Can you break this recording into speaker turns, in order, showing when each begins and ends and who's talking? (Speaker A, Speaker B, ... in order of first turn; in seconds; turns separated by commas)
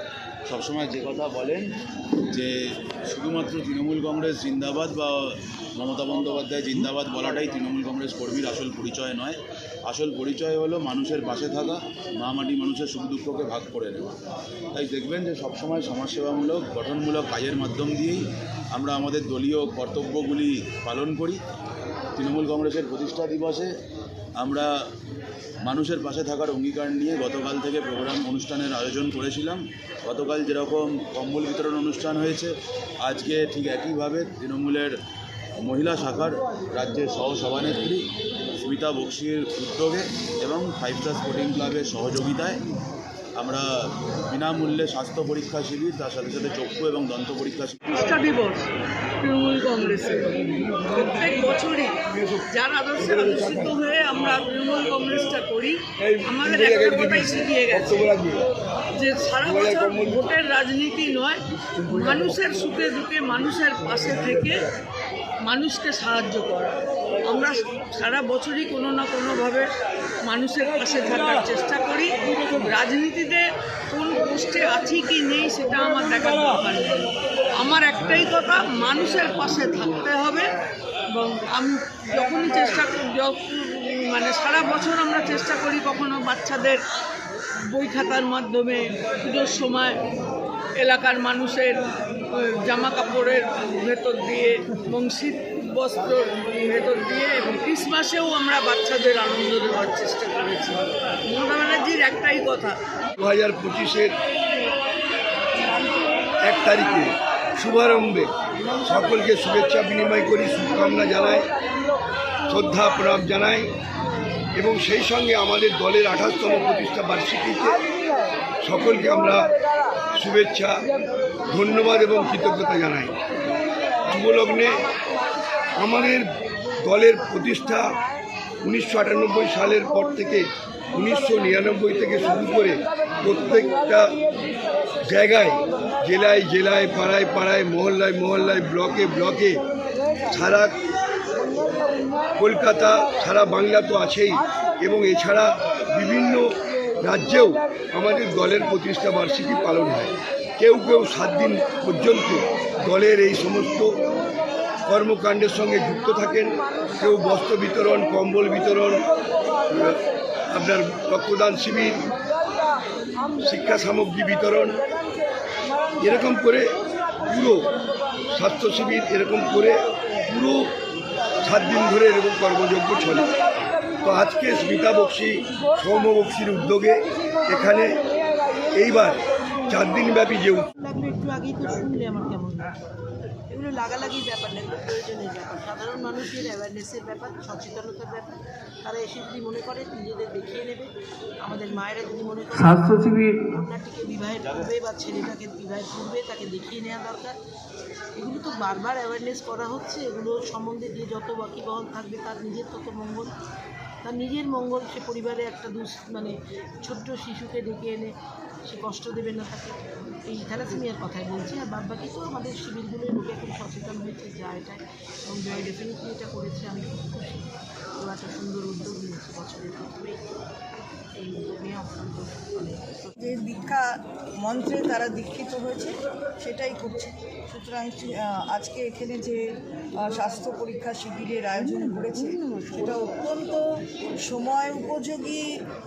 Speaker A: 0.5-1.7, Speaker A: 3.0-14.1, Speaker A: 14.7-21.4, Speaker A: 22.1-23.7, Speaker A: 24.4-24.7, Speaker A: 25.6-34.9, Speaker A: 35.6-38.1, Speaker A: 38.6-42.6, Speaker A: 43.4-43.6, Speaker A: 44.3-47.8, Speaker B: 47.9-48.6, Speaker B: 49.2-58.1, Speaker C: 53.0-53.7, Speaker C: 56.0-58.4, Speaker B: 58.9-64.7, Speaker C: 59.4-60.2, Speaker B: 65.4-69.7, Speaker B: 70.2-80.5, Speaker B: 81.1-86.8, Speaker B: 87.7-90.0, Speaker B: 90.8-91.8, Speaker B: 92.3-102.8, Speaker C: 103.2-104.1, Speaker C: 106.4-108.3, Speaker C: 108.8-111.5, Speaker C: 112.5-113.7, Speaker C: 114.6-117.9, Speaker C: 118.6-119.6, Speaker C: 120.1-120.8, Speaker C: 121.5-123.2, Speaker C: 124.0-125.1, Speaker C: 125.7-126.3, Speaker C: 126.8-128.0, Speaker C: 128.6-134.2, Speaker C: 135.0-139.6, Speaker C: 140.2-140.8, Speaker C: 142.4-146.5, Speaker C: 147.0-154.0, Speaker C: 154.9-159.1, Speaker C: 159.7-162.1, Speaker C: 163.4-164.8, Speaker C: 166.0-167.7, Speaker C: 168.3-170.7, Speaker C: 171.4-173.4, Speaker C: 174.0-178.1, Speaker C: 178.7-180.7, Speaker D: 180.7-182.8, Speaker D: 183.5-197.4, Speaker D: 198.2-203.3, Speaker D: 204.0-208.1, Speaker D: 208.7-220.2, Speaker D: 221.2-223.1, Speaker E: 223.2-223.8, Speaker E: 224.4-229.4, Speaker E: 230.0-233.6, Speaker E: 234.3-235.4